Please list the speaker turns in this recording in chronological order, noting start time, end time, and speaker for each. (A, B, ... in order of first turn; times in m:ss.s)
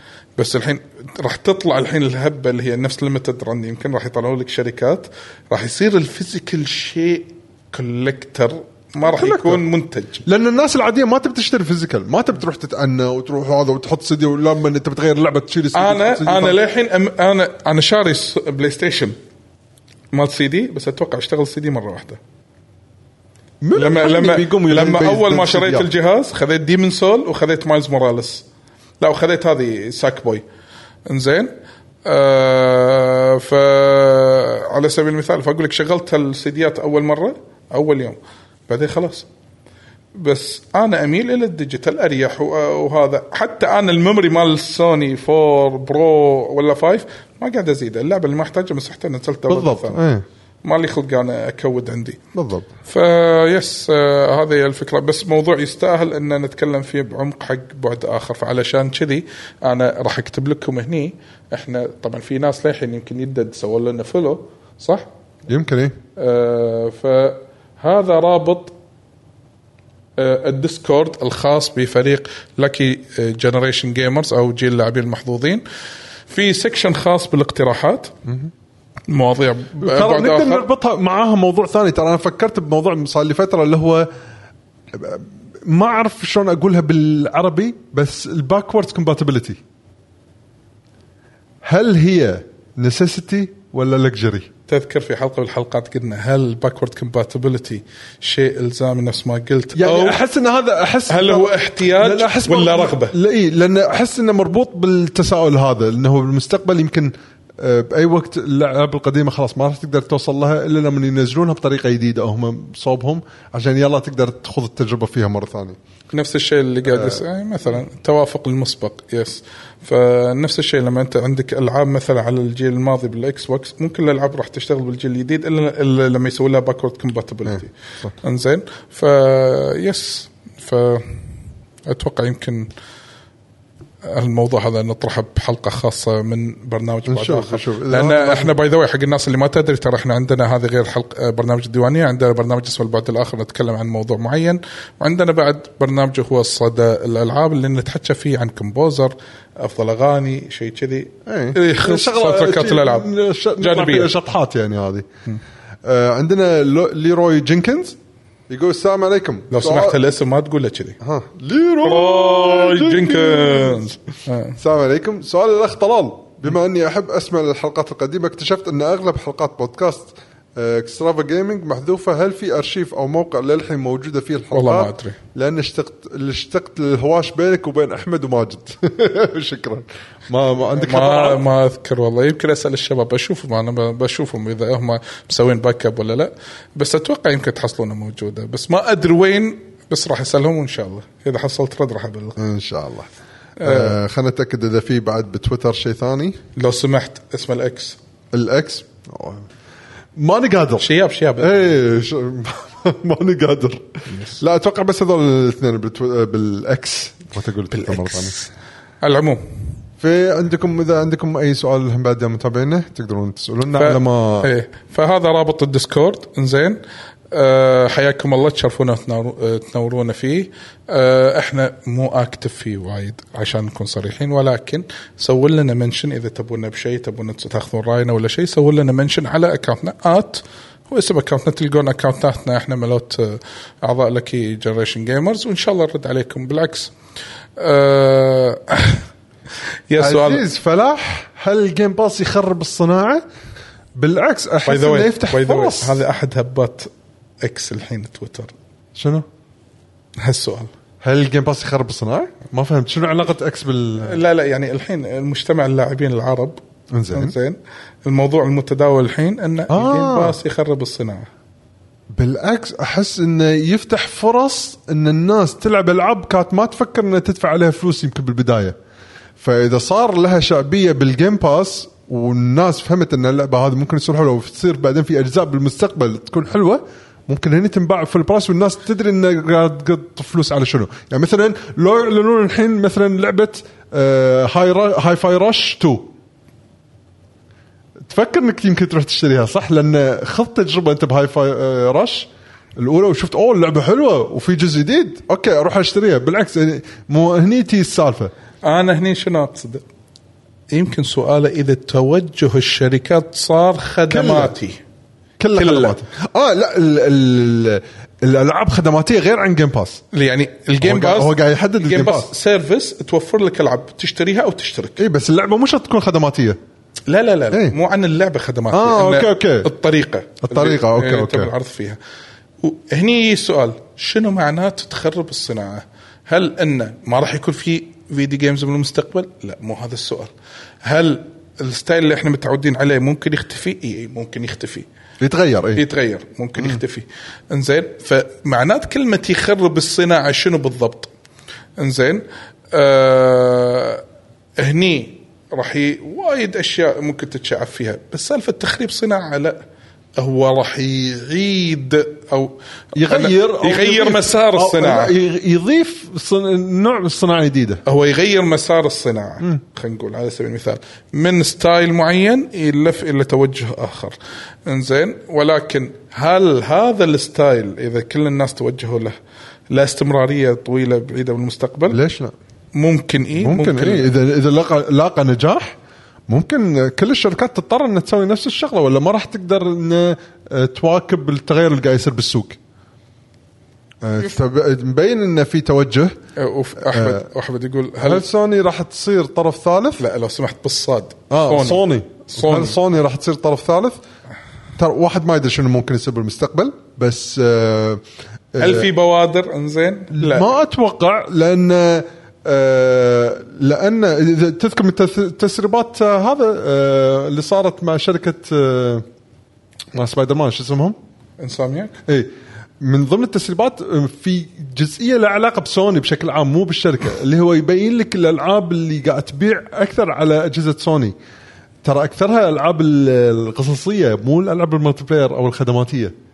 0:00.4-0:10.2 A
0:09.0-0:09.6 B
0:10.2-0:16.6 B
0:15.7-0:19.2 A
0:20.1-0:22.2 A
0:23.6-0:25.9 B
0:23.8-0:28.5 A
0:29.0-0:30.4 A
0:31.1-0:31.5 A
0:32.1-0:39.3 A
0:40.2-0:50.0 A
0:49.5-0:50.2 B
0:50.6-0:52.2 A
0:52.3-0:52.7 B
0:52.9-1:05.1 A
1:05.5-1:06.0 B
1:06.2-1:08.7 A
1:10.2-1:15.6 A
1:16.3-1:18.1 A
1:19.1-1:20.7 A
1:19.8-1:24.1 B
1:24.9-1:29.6 B
1:31.6-1:34.5 B
1:34.7-1:40.2 A
1:39.8-1:55.8 B
1:41.1-1:43.2 A
1:56.1-2:11.2 A
1:56.9-1:57.2 B
2:07.5-2:08.1 B
2:11.9-2:12.7 A
2:14.0-2:34.1 A
2:17.1-2:18.5 B
2:31.3-2:35.1 B
2:35.8-2:38.0 B
2:38.5-2:40.0 B
2:39.5-2:41.0 A
2:41.0-2:43.8 B
2:41.8-2:44.6 A
2:44.6-3:01.4 B
2:54.5-2:55.2 A
3:00.8-3:12.4 A
3:12.4-3:13.1 B
3:13.6-3:14.0 A
3:13.6-3:16.4 B
3:16.6-3:18.0 A
3:18.3-3:19.5 B
3:20.2-3:28.4 B
3:20.8-3:21.6 A
3:24.1-3:24.4 A
3:27.7-3:28.5 A
3:29.0-3:29.4 A
3:30.0-3:34.5 B
3:33.8-3:36.8 A
3:37.3-3:56.9 A
3:57.6-3:59.0 A
3:59.9-4:00.4 A
4:00.0-4:03.2 B
4:04.0-4:06.0 B
4:04.6-4:06.9 A
4:07.4-4:08.5 A
4:09.0-4:09.3 B
4:10.2-4:10.7 A
4:11.0-4:14.2 B
4:14.0-4:16.6 A
4:16.9-4:17.4 B
4:17.1-4:21.3 A
4:19.7-4:20.4 B
4:22.1-4:28.8 B
4:29.4-4:46.1 B
4:48.0-4:58.3 B
4:58.6-4:59.8 A
5:00.7-5:04.8 A
5:04.1-5:04.5 B
5:05.4-5:10.0 B
5:05.6-5:06.0 A
5:10.1-5:15.0 A
5:10.8-5:12.3 B
5:15.0-5:16.6 B
5:17.1-5:22.0 A
5:18.7-5:19.7 B
5:20.4-5:21.5 B
5:22.6-5:30.3 A
5:30.8-5:34.9 A
5:35.2-5:35.8 B
5:35.8-5:41.1 A
5:41.8-5:44.0 A
5:44.6-5:49.6 A
5:50.2-5:55.1 A
5:53.0-5:57.8 B
5:57.8-6:09.2 A
6:09.7-6:12.0 A
6:11.9-6:12.3 B
6:12.8-6:14.1 A
6:13.4-6:15.8 B
6:16.3-6:22.6 B
6:24.0-6:26.2 B
6:26.4-6:28.2 A
6:26.8-6:27.2 B
6:28.0-6:30.0 B
6:30.0-6:32.8 A
6:31.3-6:34.0 B
6:34.8-6:38.0 B
6:38.5-6:38.9 B
6:38.6-6:40.5 A
6:40.1-6:49.1 B
6:49.9-6:51.0 B
6:51.4-6:52.0 A
6:52.1-7:01.2 B
7:01.8-7:06.1 B